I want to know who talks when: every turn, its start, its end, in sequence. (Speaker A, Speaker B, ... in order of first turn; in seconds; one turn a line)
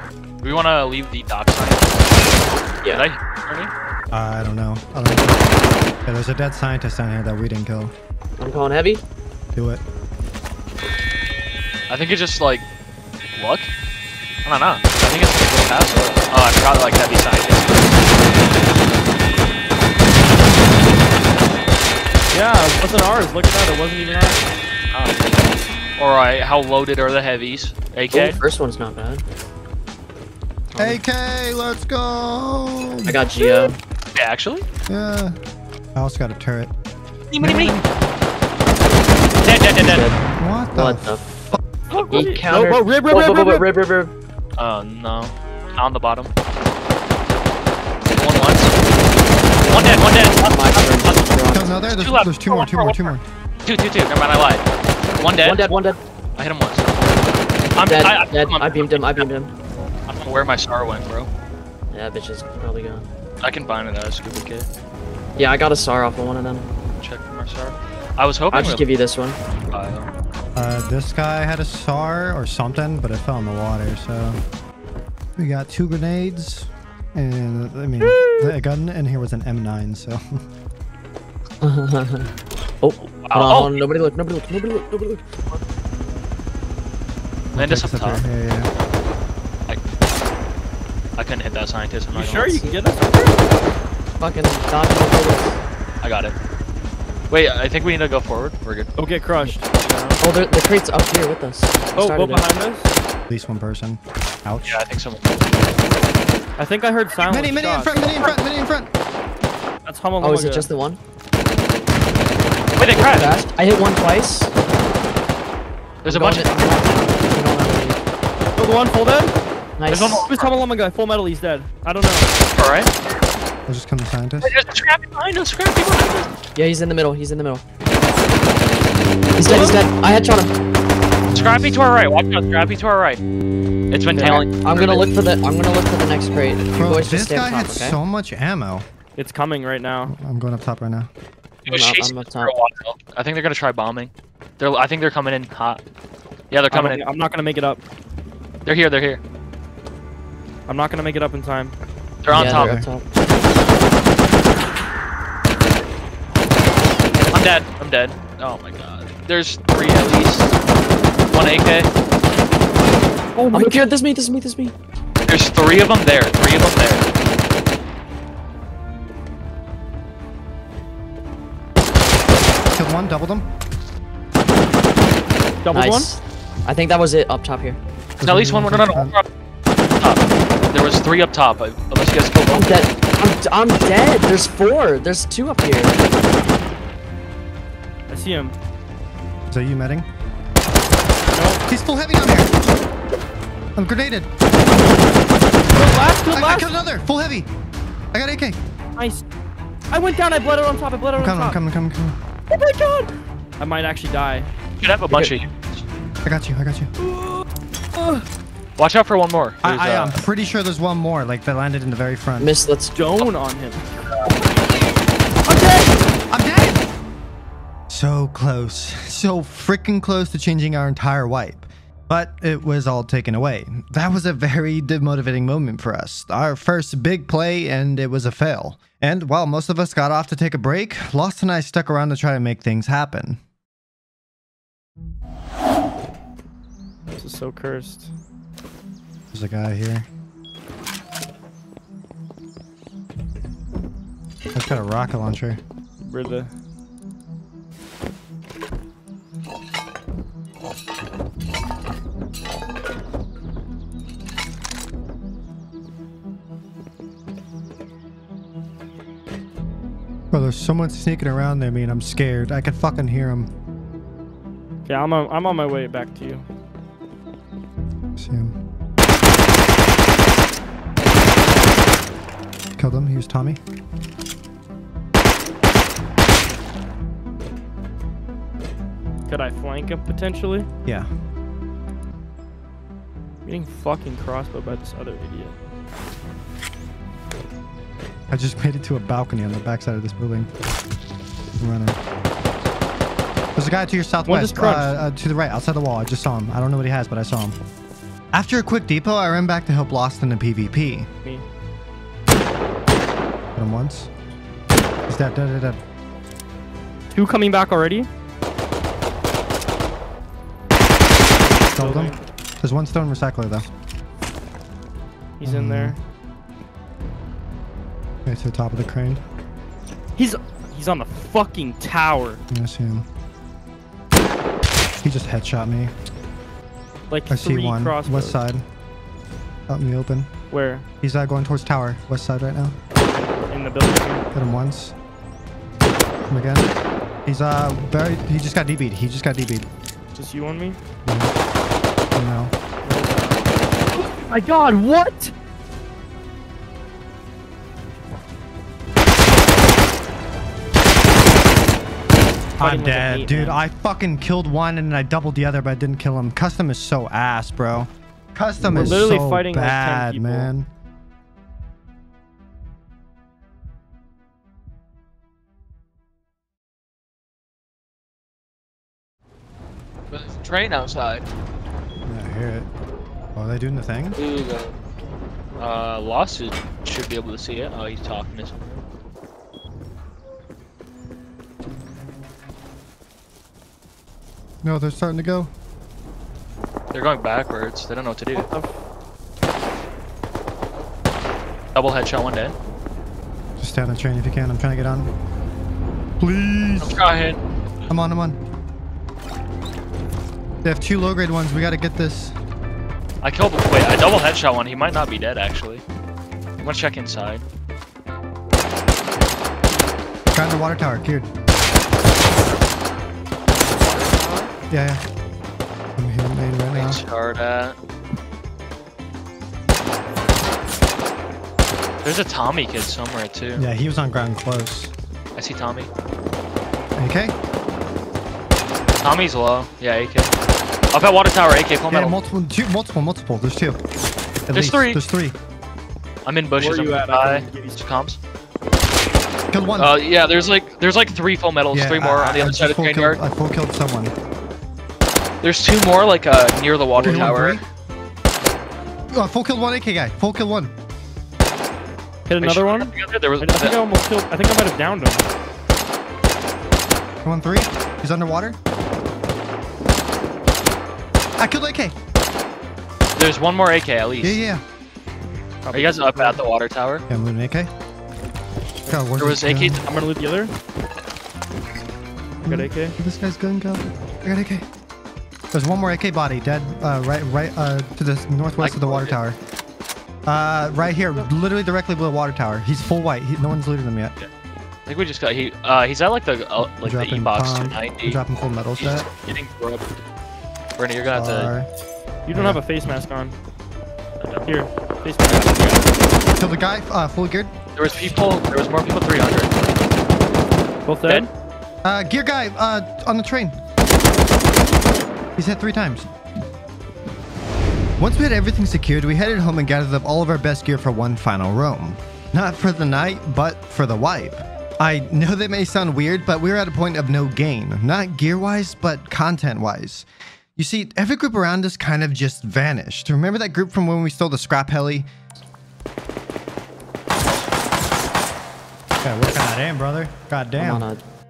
Speaker A: 0.4-3.7
Speaker B: 4.1-7.9
Speaker C: 8.4-9.0
Speaker B: 9.5-9.8
Speaker A: 11.9-12.6
Speaker A: 13.3-13.7
Speaker A: 14.4-18.1
Speaker D: 22.3-24.4
Speaker A: 24.9-28.4
Speaker C: 28.1-29.2
Speaker C: 30.7-31.0
Speaker B: 30.8-33.2
Speaker C: 33.0-33.8
Speaker A: 34.1-34.6
Speaker B: 34.9-35.3
Speaker B: 35.9-36.7
Speaker A: 37.3-37.8
Speaker B: 37.4-37.9
Speaker A: 39.4-40.1
Speaker C: 39.7-40.2
Speaker B: 40.4-41.6
Speaker C: 40.7-41.4
Speaker A: 41.9-42.3
Speaker D: 41.9-43.7
Speaker C: 42.1-44.1
Speaker A: 44.6-46.3
Speaker A: 48.0-48.7
Speaker C: 49.6-51.7
Speaker A: 49.7-51.2
Speaker B: 51.5-53.2
Speaker A: 51.8-54.6
Speaker A: 55.2-59.3
Speaker C: 55.4-56.0
Speaker C: 57.8-59.5
Speaker A: 60.1-61.3
Speaker C: 61.9-63.1
Speaker A: 63.4-64.7
Speaker C: 65.3-66.7
Speaker A: 67.0-68.8
Speaker C: 68.5-69.4
Speaker A: 69.7-70.1
Speaker B: 70.5-74.4
Speaker B: 75.4-80.4
Speaker C: 81.6-82.3
Speaker C: 82.8-85.2
Speaker A: 83.2-83.8
Speaker B: 87.5-88.7
Speaker A: 87.5-88.2
Speaker A: 91.2-92.6
Speaker D: 92.1-93.4
Speaker C: 94.2-95.6
Speaker A: 96.0-96.3
Speaker A: 97.3-98.9
Speaker D: 99.0-99.6
Speaker A: 99.6-100.2
Speaker C: 100.2-102.5
Speaker D: 101.9-102.9
Speaker B: 103.3-104.8
Speaker A: 104.6-105.3
Speaker D: 106.6-108.3
Speaker B: 107.2-108.9
Speaker D: 109.8-110.7
Speaker C: 110.2-111.0
Speaker A: 112.8-113.3
Speaker C: 112.8-114.5
Speaker A: 116.0-116.6
Speaker C: 116.0-118.0
Speaker D: 118.5-119.3
Speaker C: 119.8-120.3
Speaker A: 119.9-120.5
Speaker D: 120.3-122.3
Speaker A: 122.5-122.9
Speaker B: 123.7-124.5
Speaker A: 124.4-126.3
Speaker C: 126.5-127.6
Speaker C: 129.3-130.5
Speaker A: 129.4-129.8
Speaker B: 131.2-131.7
Speaker A: 131.3-133.2
Speaker A: 133.9-135.1
Speaker C: 134.1-138.0
Speaker B: 136.7-138.8
Speaker D: 139.2-140.1
Speaker B: 140.1-141.1
Speaker A: 141.6-145.8
Speaker C: 141.7-142.5
Speaker A: 146.5-147.0
Speaker D: 146.7-147.8
Speaker A: 148.7-149.2
Speaker D: 150.7-151.7
Speaker A: 152.2-152.8
Speaker C: 152.3-153.1
Speaker B: 152.3-152.9
Speaker A: 157.3-160.5
Speaker A: 161.3-161.9
Speaker D: 163.4-163.8
Speaker C: 163.5-164.7
Speaker A: 165.3-167.1
Speaker B: 172.7-173.5
Speaker D: 175.6-176.1
Speaker C: 175.7-177.8
Speaker B: 178.2-179.1
Speaker A: 178.2-179.2
Speaker A: 179.9-182.7
Speaker C: 182.5-186.0
Speaker D: 188.1-188.5
Speaker B: 189.5-190.1
Speaker D: 191.3-191.6
Speaker B: 191.7-192.5
Speaker B: 193.8-194.3
Speaker D: 195.7-196.7
Speaker B: 196.3-197.5
Speaker B: 198.1-198.6
Speaker D: 198.9-199.2
Speaker D: 199.9-201.6
Speaker B: 201.2-202.2
Speaker D: 202.5-204.5
Speaker A: 204.8-205.8
Speaker C: 205.1-205.3
Speaker B: 206.2-206.9
Speaker D: 207.0-207.4
Speaker D: 207.9-208.2
Speaker A: 208.8-210.2
Speaker B: 209.6-212.5
Speaker C: 212.4-212.9
Speaker D: 212.9-213.8
Speaker B: 215.5-216.9
Speaker B: 217.9-233.4
Speaker D: 237.2-238.1
Speaker B: 239.3-240.1
Speaker B: 244.5-245.6
Speaker D: 246.0-246.5
Speaker B: 260.3-263.5
Speaker D: 264.9-266.4
Speaker B: 268.1-268.6
Speaker B: 272.8-273.6
Speaker D: 279.3-280.7
Speaker D: 283.4-285.5
Speaker B: 288.3-290.5
Speaker B: 291.6-292.0
Speaker B: 293.6-297.6
Speaker D: 294.2-295.0
Speaker B: 298.3-301.1
Speaker B: 303.5-304.1
Speaker B: 305.1-305.8
Speaker D: 307.1-308.1
Speaker D: 311.5-312.2
Speaker B: 311.6-313.7
Speaker D: 315.4-316.0
Speaker B: 315.4-316.0
Speaker B: 318.2-319.2
Speaker D: 320.1-322.4
Speaker B: 322.5-323.1
Speaker B: 325.0-325.9
Speaker D: 327.1-328.4
Speaker B: 327.3-328.6
Speaker B: 329.7-330.3
Speaker D: 330.5-330.8
Speaker B: 331.0-332.8
Speaker D: 333.5-334.2
Speaker B: 334.3-334.9
Speaker B: 336.3-336.7
Speaker B: 337.2-339.7
Speaker D: 340.1-340.8
Speaker B: 341.0-341.3
Speaker B: 342.1-342.5
Speaker D: 342.8-345.3
Speaker D: 352.6-353.6
Speaker B: 352.6-360.7
Speaker D: 358.6-360.5
Speaker A: 370.1-371.2
Speaker B: 372.0-372.7
Speaker B: 373.3-374.2
Speaker A: 374.1-374.7
Speaker A: 375.6-378.5
Speaker B: 384.6-385.5
Speaker A: 386.9-388.5
Speaker D: 388.3-388.7
Speaker A: 391.7-392.5
Speaker B: 393.6-395.1
Speaker B: 396.2-397.0
Speaker A: 396.8-397.4
Speaker B: 397.9-398.4
Speaker B: 400.6-402.4
Speaker A: 403.2-405.8
Speaker A: 406.6-407.4
Speaker B: 410.3-411.3
Speaker A: 413.6-414.5
Speaker B: 414.7-415.0
Speaker B: 415.9-417.0
Speaker A: 416.7-417.8
Speaker A: 422.0-423.7
Speaker B: 423.6-424.9
Speaker A: 425.4-425.9
Speaker B: 426.9-427.3
Speaker A: 429.0-430.3
Speaker A: 430.9-432.2
Speaker B: 431.9-433.8
Speaker B: 434.4-435.4
Speaker A: 434.5-435.0
Speaker A: 436.2-438.2
Speaker D: 436.6-437.8
Speaker B: 439.5-440.0
Speaker A: 439.8-443.2
Speaker B: 441.7-444.1
Speaker A: 445.4-447.6
Speaker D: 447.0-447.3
Speaker B: 447.0-447.6
Speaker B: 449.1-450.7
Speaker D: 452.3-455.2
Speaker A: 452.4-453.8
Speaker B: 457.2-458.6
Speaker B: 461.4-461.9
Speaker A: 463.1-464.4
Speaker B: 464.2-464.6
Speaker D: 465.6-466.4
Speaker A: 465.7-467.0
Speaker B: 467.1-467.7
Speaker B: 468.9-469.8
Speaker A: 469.2-469.8
Speaker D: 469.7-470.5
Speaker D: 472.4-473.0
Speaker B: 472.4-474.6
Speaker B: 475.5-479.4
Speaker A: 478.6-479.2
Speaker B: 480.2-484.1
Speaker A: 484.9-488.2
Speaker B: 486.8-489.1
Speaker A: 488.8-489.9
Speaker A: 490.8-491.5
Speaker B: 491.1-491.7
Speaker D: 492.2-493.4
Speaker B: 492.3-492.6
Speaker A: 494.2-495.8
Speaker D: 494.4-495.9
Speaker B: 496.4-497.5
Speaker A: 497.8-499.5
Speaker D: 500.9-501.3
Speaker B: 501.8-503.6
Speaker B: 505.4-506.1
Speaker B: 508.0-525.1
Speaker B: 529.0-530.9
Speaker C: 530.6-531.0